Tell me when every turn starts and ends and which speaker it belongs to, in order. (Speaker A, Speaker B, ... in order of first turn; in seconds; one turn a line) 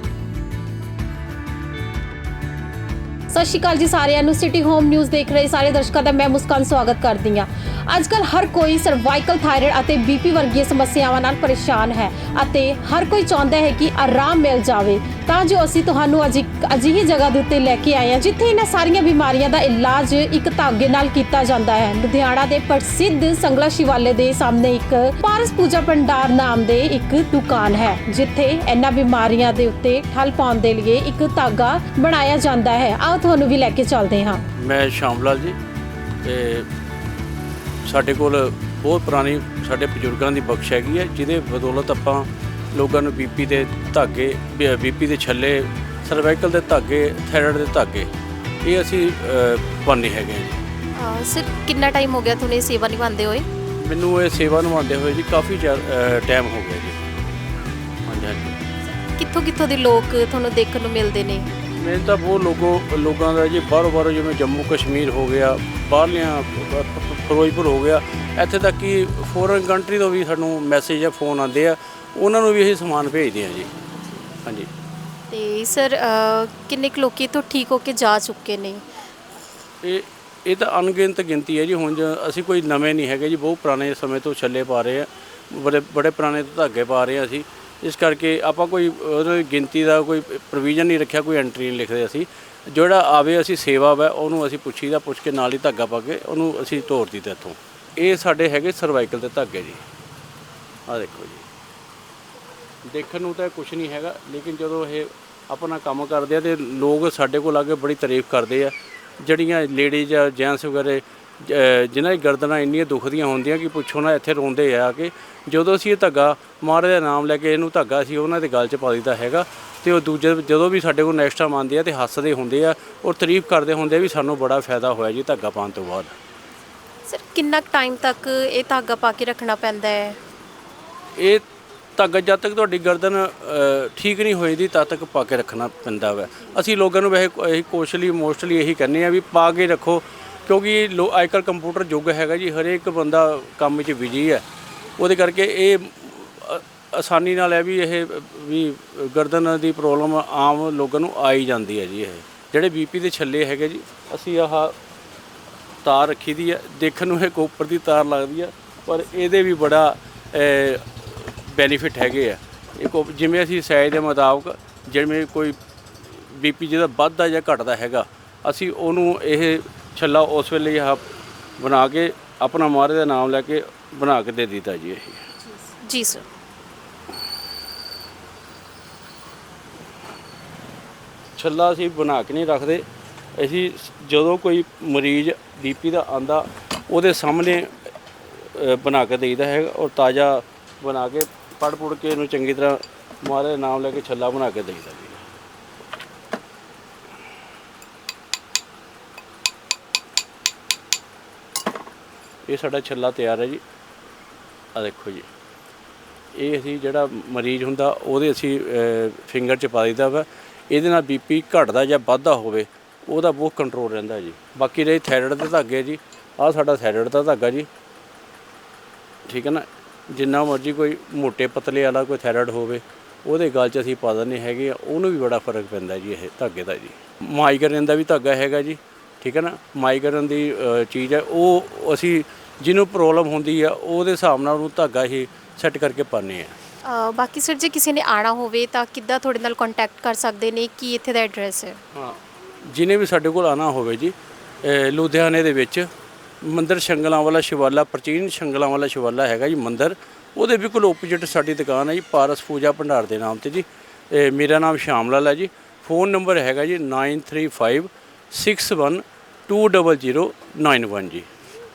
Speaker A: 3.3-34.5
Speaker B: 34.5-35.6
Speaker B: 36.2-36.7
Speaker B: 37.8-48.1
Speaker B: 48.6-50.6
Speaker C: 50.9-53.5
Speaker B: 53.8-57.0
Speaker B: 58.0-58.6
Speaker C: 59.1-61.5
Speaker B: 61.8-73.7
Speaker B: 74.4-74.7
Speaker C: 75.3-78.8
Speaker B: 79.8-99.8
Speaker B: 100.9-101.5
Speaker B: 102.8-126.1
Speaker C: 127.0-130.2
Speaker B: 131.2-131.4
Speaker B: 131.9-144.4
Speaker B: 145.0-154.8
Speaker B: 155.8-171.0
Speaker B: 171.6-175.3
Speaker C: 175.8-176.2
Speaker B: 181.3-187.7
Speaker B: 188.4-195.2
Speaker B: 202.5-203.6
Speaker B: 204.7-205.3
Speaker B: 206.3-217.7
Speaker B: 219.2-236.6
Speaker C: 236.8-241.8
Speaker B: 241.9-245.9
Speaker B: 246.4-261.3